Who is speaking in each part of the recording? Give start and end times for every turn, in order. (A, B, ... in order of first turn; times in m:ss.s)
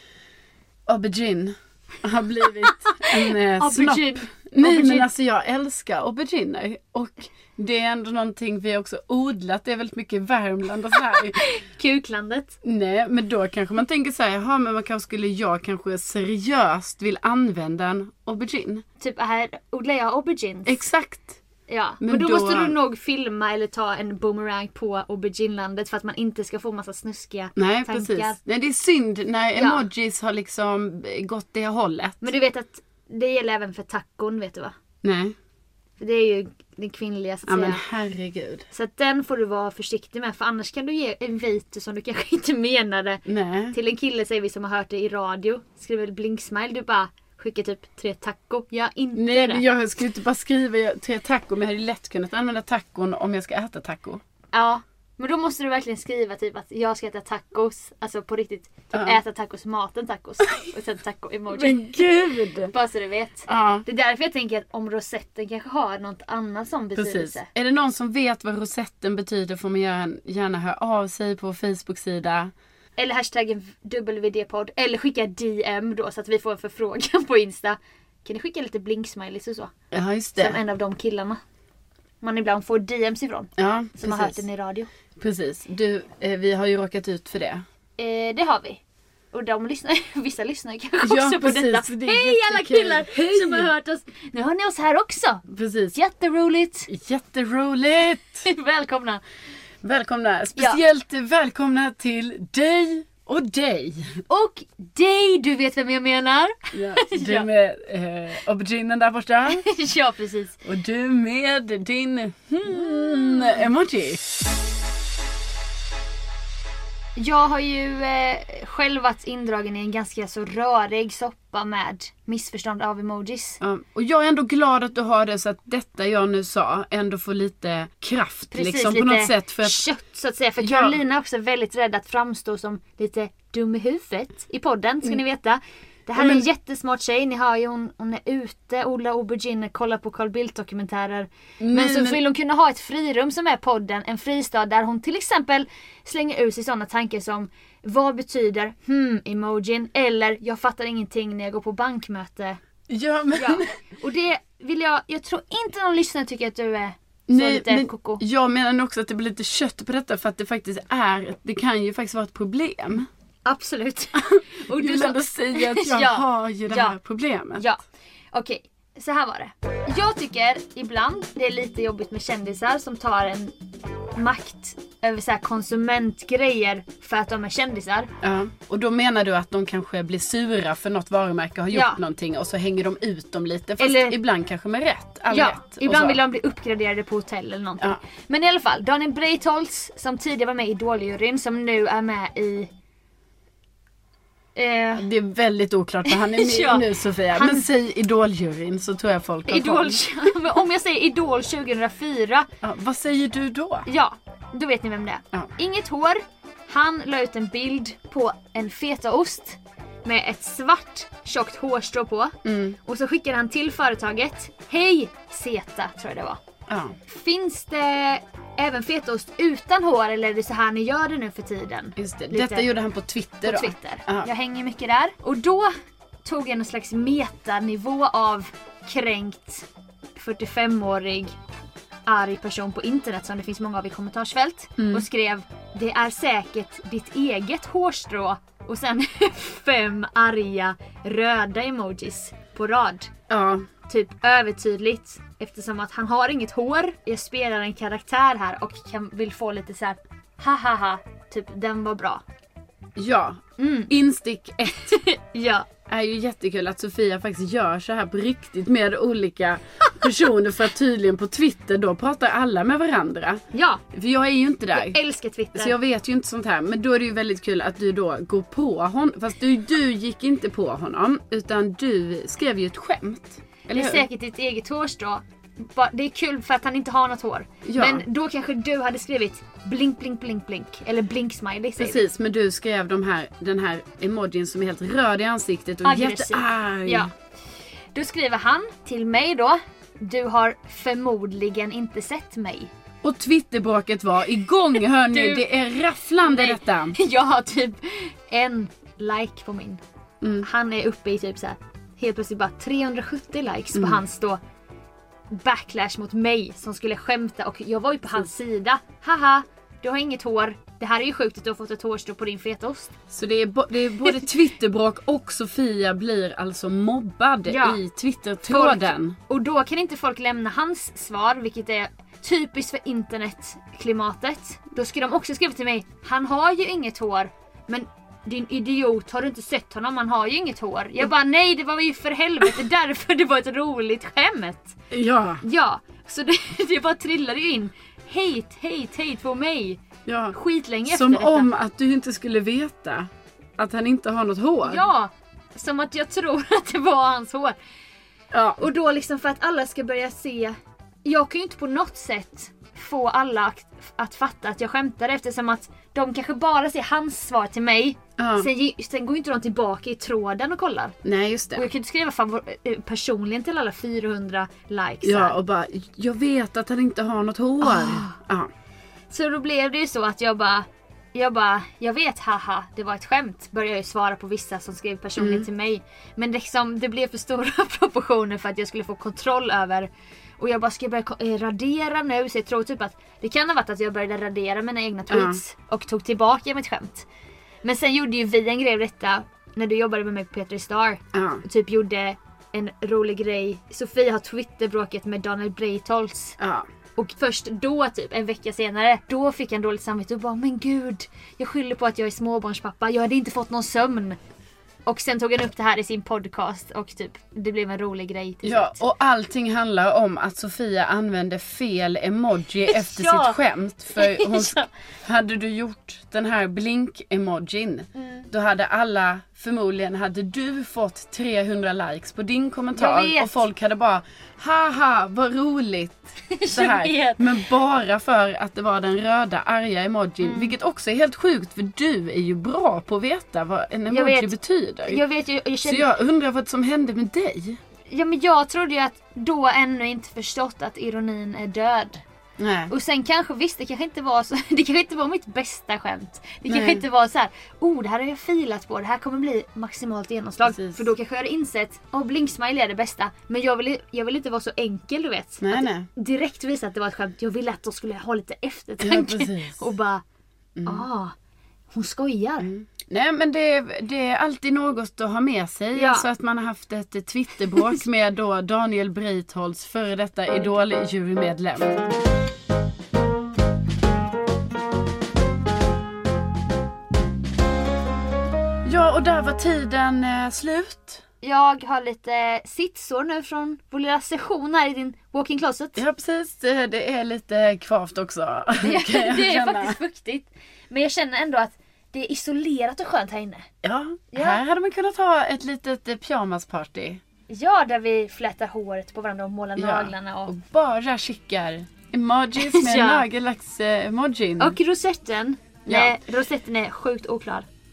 0:00.9-0:11.4 A
0:02.8-0:05.1 B
0:11.4-0:12.6 B
0:12.6-0:18.8 A
0:19.0-0:20.8 B
0:20.7-0:21.4 A
0:21.7-0:28.4 B
0:22.0-0:22.8 A
0:27.6-0:32.3 A
0:29.6-0:29.8 B
0:32.2-0:34.7 B
0:35.0-0:35.4 A
0:36.0-0:37.8 B
0:37.5-0:38.7 A
0:38.7-0:49.6 B
0:43.3-0:43.8 A
0:49.1-0:54.2 A
0:54.5-1:02.1 B
0:58.9-0:59.2 A
1:01.5-1:02.7 A
1:02.7-1:07.5 B
1:03.5-1:03.9 A
1:07.0-1:12.5 A
1:13.0-1:19.7 B
1:19.9-1:20.6 A
1:20.4-1:21.4 B
1:22.2-1:24.9 B
1:23.6-1:24.4 A
1:25.2-1:27.6 A
1:28.0-1:28.8 B
1:29.3-1:36.9 B
1:31.0-1:33.7 A
1:35.5-1:36.0 A
1:36.9-1:38.5 A
1:38.5-1:39.2 B
1:39.8-1:44.2 A
1:44.3-1:47.5 B
1:46.7-1:49.7 A
1:49.5-1:50.6 B
1:50.6-1:54.2 A
1:52.7-1:53.6 B
1:57.2-2:03.6 B
2:03.6-2:09.8 A
2:08.5-2:32.6 B
2:10.6-2:11.0 A
2:16.2-2:16.5 A
2:21.6-2:22.2 A
2:32.9-2:33.7 A
2:33.4-2:38.2 B
2:37.3-2:43.1 A
2:43.5-2:47.0 B
2:44.2-2:47.7 A
2:47.5-2:53.5 B
2:54.2-2:58.1 B
2:58.2-3:06.2 A
3:01.7-3:02.0 B
3:03.8-3:04.2 B
3:05.3-3:12.7 B
3:14.6-3:15.1 B
3:15.0-3:20.4 A
3:16.1-3:17.7 B
3:19.5-3:22.5 B
3:22.6-3:23.9 A
3:23.9-3:36.4 B
3:32.4-3:32.8 A
3:36.7-3:37.0 A
3:37.1-3:42.7 B
3:42.0-3:44.3 A
3:43.4-3:45.7 B
3:46.2-3:51.4 B
3:52.1-4:03.1 B
3:54.8-3:55.1 A
4:03.3-4:03.7 A
4:03.9-4:12.2 B
4:13.0-4:15.0 A
4:13.6-4:13.9 B
4:14.7-4:15.7 B
4:15.9-4:25.0 A
4:23.5-4:23.8 B
4:24.7-4:25.8 B
4:25.5-4:34.0 A
4:33.7-4:42.1 B
4:37.6-4:38.0 A
4:41.8-4:47.1 A
4:45.8-4:47.1 B
4:48.0-4:52.7 B
4:53.0-4:57.0 A
4:55.1-4:55.5 B
4:56.2-4:59.8 B
5:00.2-5:00.5 A
5:00.4-5:04.4 B
5:03.7-5:04.0 A
5:05.3-5:12.9 B
5:13.1-5:19.2 A
5:17.5-5:17.8 B
5:18.5-5:34.8 B
5:34.9-5:35.4 A
5:35.4-5:39.8 B
5:40.1-5:44.9 A
5:40.3-5:41.5 B
5:44.6-5:47.6 B
5:48.3-5:48.7 A
5:48.6-6:01.0 B
5:58.2-5:58.5 A
6:01.0-6:01.7 A
6:01.6-6:05.4 B
6:05.0-6:08.5 A
6:07.6-6:08.2 B
6:09.1-6:27.1 B
6:15.2-6:15.5 A
6:25.1-6:25.4 A
6:27.6-6:36.4 B
6:31.1-6:31.4 A
6:36.4-6:36.7 A
6:37.0-6:44.2 B
6:44.9-6:48.8 B
6:48.4-7:15.0 A
6:52.7-6:53.4 B
6:54.0-6:54.7 B
6:58.0-6:58.3 B
7:02.8-7:03.4 B
7:06.3-7:07.3 B
7:10.2-7:10.5 B
7:13.9-7:15.9 B
7:15.6-7:17.6 A
7:17.9-7:22.0 B
7:22.4-7:22.7 A
7:22.7-7:40.0 B
7:26.5-7:26.8 A
7:30.4-7:30.9 A
7:35.4-7:35.9 A
7:38.8-7:39.6 A
7:40.6-7:40.9 A
7:40.6-7:41.1 B
7:41.7-7:42.5 B
7:42.4-7:51.8 A
7:45.7-7:46.1 B
7:58.6-8:01.0 A
8:01.2-8:05.8 B
8:05.8-8:09.8 A
8:08.6-8:13.5 B
8:13.6-8:17.0 A
8:14.1-8:14.4 B
8:17.3-8:20.3 B
8:19.6-8:24.6 A
8:22.4-8:23.1 B
8:24.4-8:27.5 B
8:25.7-8:26.0 A